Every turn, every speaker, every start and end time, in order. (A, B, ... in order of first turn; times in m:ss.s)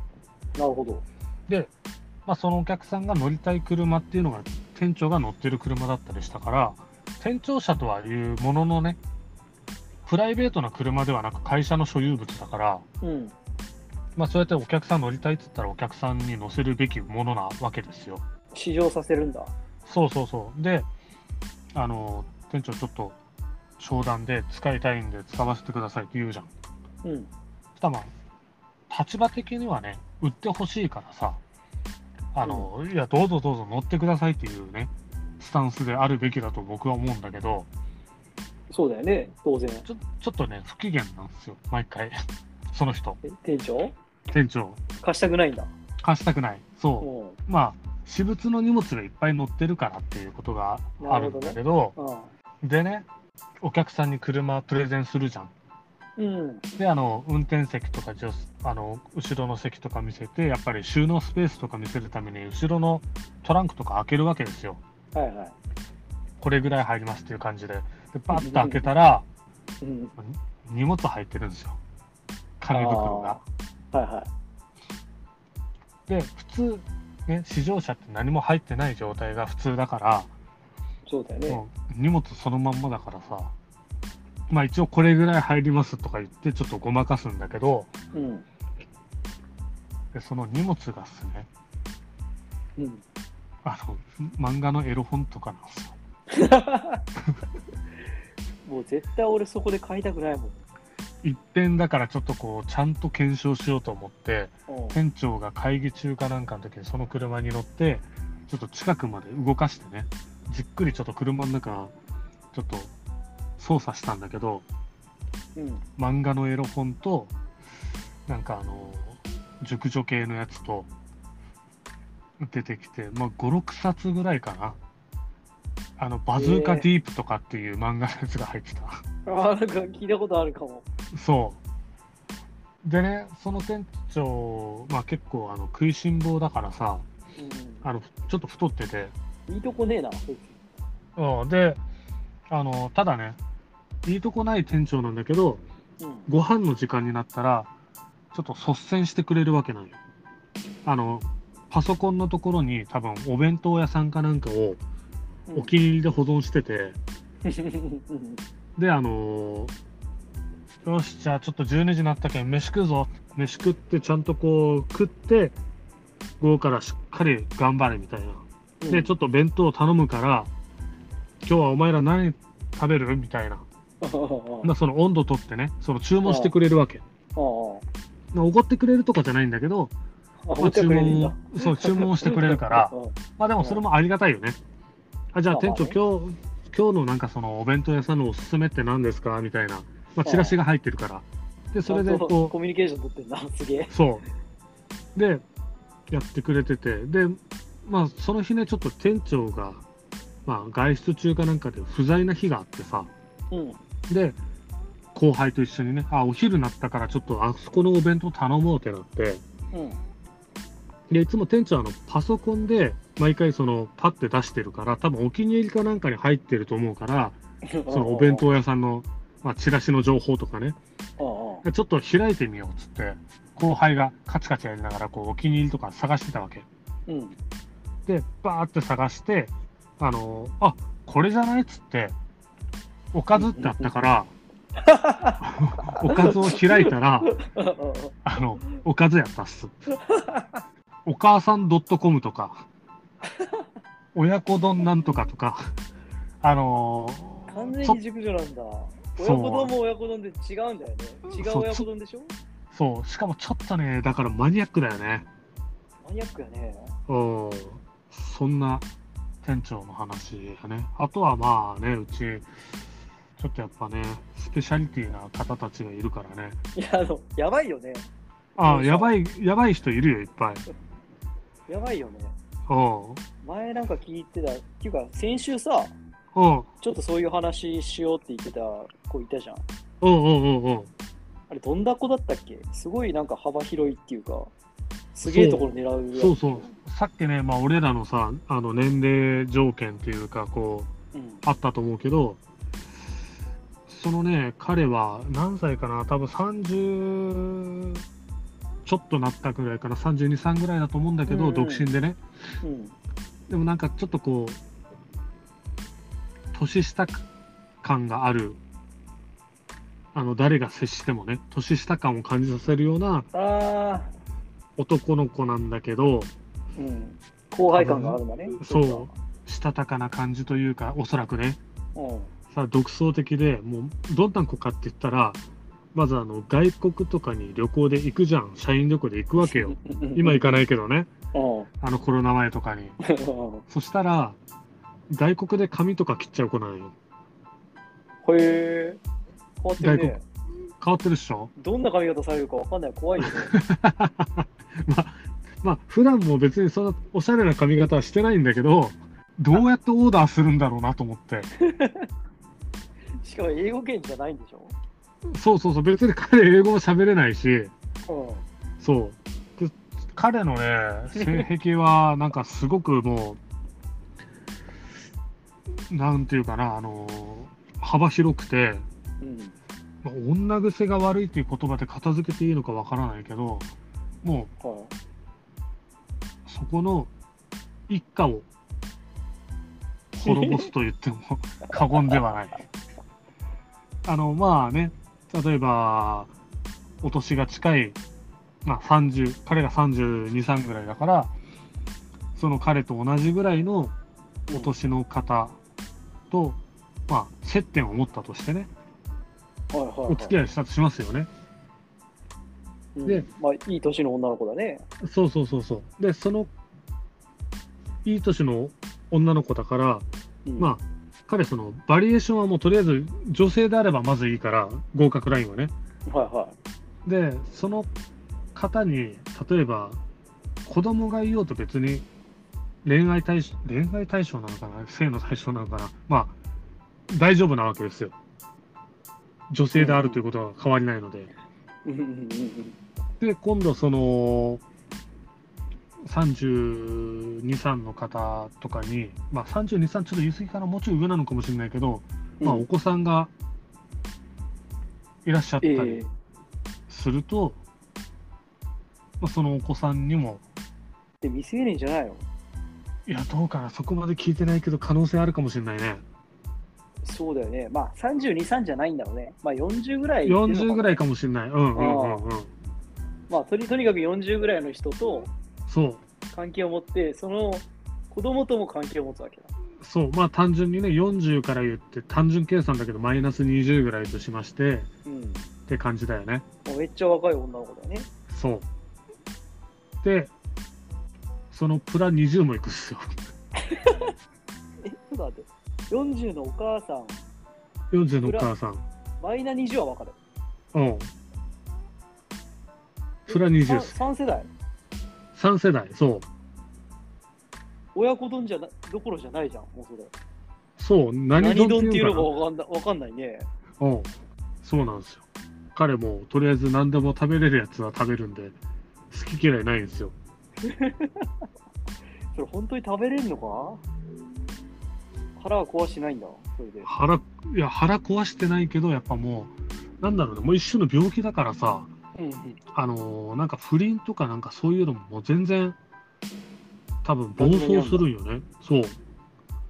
0:00.6-0:01.0 A
0:02.2-0:09.0 B
0:10.0-0:12.8 B
0:13.0-0:13.3 A
0:14.2-0:18.2 B
0:18.5-0:19.5 A
0:19.8-0:20.9 B
0:21.7-0:23.2 B
0:23.8-0:26.5 B
0:27.0-0:27.3 A
0:27.8-0:28.1 B
0:28.9-0:31.4 B
0:32.3-0:37.7 B
0:32.4-0:32.7 A
0:38.7-0:39.9 A
0:39.9-0:42.2 B
0:42.7-0:43.2 B
0:43.2-0:44.0 A
0:44.3-0:44.8 B
0:45.0-0:45.7 A
0:46.0-0:51.9 B
0:47.0-0:47.4 A
0:51.0-0:52.3 A
0:52.6-0:53.1 B
0:53.6-0:55.5 B
0:56.2-0:56.6 A
0:56.8-1:04.8 B
1:05.1-1:05.5 A
1:06.4-1:09.2 B
1:08.3-1:08.9 A
1:09.8-1:10.1 A
1:10.2-1:11.8 B
1:12.6-1:13.4 B
1:12.7-1:13.4 A
1:13.9-1:14.3 A
1:16.1-1:20.3 B
1:21.1-1:21.6 A
1:21.5-1:23.5 B
1:24.5-1:27.9 B
1:28.1-1:28.4 A
1:30.1-1:31.5 B
1:32.8-1:33.0 A
1:33.6-1:36.0 B
1:36.3-1:37.0 A
1:38.6-1:40.6 A
1:41.2-1:51.9 B
1:44.7-1:45.0 A
1:52.5-1:52.9 B
1:53.6-1:54.6 B
1:55.6-1:55.8 A
1:56.0-1:57.3 B
1:58.3-2:00.9 B
2:02.4-2:04.8 B
2:06.0-2:09.0 B
2:06.4-2:06.9 A
2:09.2-2:10.9 A
2:11.1-2:11.6 B
2:12.8-2:17.0 B
2:17.4-2:17.8 A
2:17.8-2:19.1 B
2:19.5-2:20.6 A
2:21.2-2:21.8 B
2:22.5-2:23.4 B
2:24.0-2:25.6 B
2:26.0-2:26.3 A
2:26.3-2:27.7 B
2:28.3-2:30.0 B
2:30.8-2:34.8 B
2:35.5-2:37.0 B
2:37.4-2:38.4 A
2:38.8-2:39.7 B
2:40.8-2:45.6 B
2:46.4-2:50.5 B
2:48.8-2:49.1 A
2:51.4-2:53.6 B
2:54.0-2:54.7 A
2:54.6-2:57.0 B
2:56.2-2:56.5 A
2:57.4-2:57.8 A
2:58.3-2:59.9 B
3:00.4-3:03.8 A
3:00.6-3:04.6 B
3:05.3-3:12.5 B
3:05.5-3:06.0 A
3:10.2-3:10.6 A
3:11.9-3:13.9 A
3:13.9-3:14.2 B
3:15.1-3:15.4 B
3:16.1-3:19.8 B
3:20.4-3:23.1 B
3:23.5-3:23.8 A
3:24.1-3:24.4 B
3:25.1-3:29.4 B
3:29.7-3:30.0 A
3:31.1-3:37.4 B
3:37.6-3:38.5 A
3:37.9-3:40.8 B
3:41.2-3:41.6 A
3:41.6-3:46.6 B
3:47.1-3:47.4 A
3:48.0-3:52.1 B
3:53.1-3:54.3 B
3:53.4-3:53.9 A
3:54.8-3:58.2 A
3:55.4-3:57.4 B
3:58.2-3:59.7 B
3:59.9-4:00.6 A
4:01.0-4:02.6 B
4:03.2-4:03.6 A
4:04.1-4:05.7 B
4:06.4-4:08.0 B
4:07.5-4:12.3 A
4:09.2-4:09.7 B
4:11.3-4:11.9 B
4:12.7-4:15.3 B
4:16.0-4:16.9 A
4:17.1-4:18.9 B
4:19.4-4:22.5 B
4:23.4-4:26.6 B
4:26.8-4:28.1 A
4:28.6-4:30.6 B
4:28.6-4:29.1 A
4:31.7-4:32.4 A
4:32.7-4:33.2 B
4:33.4-4:35.9 A
4:36.3-4:36.7 B
4:36.8-4:39.6 A
4:40.0-4:40.9 B
4:41.5-4:44.5 A
4:45.1-4:46.7 A
4:45.2-4:50.9 B
4:51.1-4:51.4 A
4:51.4-4:52.4 B
4:53.9-4:58.0 B
4:58.8-5:02.2 B
5:01.3-5:01.9 A
5:02.6-5:02.9 A
5:03.5-5:04.6 B
5:06.5-5:07.2 B
5:07.8-5:08.6 B
5:10.1-5:13.3 B
5:13.3-5:14.1 A
5:14.8-5:16.3 B
5:16.8-5:19.1 A
5:17.7-5:21.6 B
5:22.0-5:22.3 A
5:22.5-5:25.4 B
5:25.9-5:31.1 B
5:29.4-5:30.6 A
5:31.3-5:31.7 A
5:31.8-5:33.0 B
5:33.0-5:33.6 A
5:33.7-5:34.4 B
5:35.1-5:36.9 B
5:38.2-5:39.0 A
5:39.6-5:40.2 A
5:39.8-5:40.2 B
5:40.8-5:41.5 B
5:41.6-5:43.5 A
5:43.2-5:51.5 B
5:51.6-5:52.1 A
5:53.2-5:54.7 A
5:55.2-5:57.7 B
5:58.1-5:58.4 A
5:58.8-6:03.4 B
6:01.1-6:01.5 A
6:05.9-6:08.8 B
6:09.2-6:09.6 A
6:10.0-6:13.7 B
6:14.2-6:14.5 B
6:14.6-6:14.9 A
6:16.4-6:17.1 B
6:17.9-6:18.4 B
6:20.1-6:22.6 B
6:20.2-6:20.7 A
6:24.0-6:26.3 B
6:27.0-6:28.0 B
6:28.6-6:31.3 B
6:32.4-6:33.9 B
6:34.5-6:35.6 B
6:36.3-6:38.7 B
6:39.7-6:40.4 A
6:40.1-6:41.3 B
6:43.0-6:44.8 A
6:45.0-6:46.5 B
6:48.0-6:50.0 B
6:50.4-6:50.7 A
6:50.6-6:55.7 B
6:56.1-6:56.5 A
6:57.0-6:57.9 B
6:58.5-7:00.0 B
7:00.6-7:02.1 B
7:02.8-7:06.4 B
7:07.1-7:08.1 B
7:09.5-7:11.3 B
7:09.7-7:10.2 A
7:11.8-7:12.8 A
7:13.2-7:14.6 B
7:16.0-7:23.3 B
7:22.4-7:22.6 A
7:25.2-7:26.0 B
7:25.6-7:26.1 A
7:26.9-7:27.6 B
7:29.2-7:30.4 B
7:31.2-7:32.2 A
7:33.1-7:36.0 B
7:37.0-7:41.0 A
7:40.2-7:42.5 B
7:41.7-7:42.2 A
7:43.3-7:45.3 A
7:45.7-7:46.0 B
7:46.3-7:49.5 A
7:49.8-7:54.9 B
7:55.1-7:55.5 A
7:55.7-7:56.4 B
7:56.6-7:58.1 A
7:58.3-7:58.7 B
8:00.0-8:00.3 B
8:01.5-8:03.2 B
8:03.6-8:04.1 A
8:04.8-8:07.2 A
8:07.9-8:08.8 B
8:08.2-8:08.5 A
8:09.2-8:10.2 A
8:10.7-8:11.1 B
8:13.3-8:14.0 B
8:13.3-8:14.5 A
8:15.3-8:16.3 B
8:17.9-8:20.1 A
8:20.8-8:22.3 B
8:21.4-8:23.5 A
8:23.8-8:24.1 B
8:24.6-8:28.6 B
8:29.1-8:30.1 B
8:30.6-8:31.3 A
8:32.3-8:33.8 A
8:35.4-8:36.9 A
8:36.8-8:41.9 B
8:42.2-8:42.6 A
8:42.7-8:45.8 B
8:47.0-8:49.0 B
8:47.4-8:48.1 A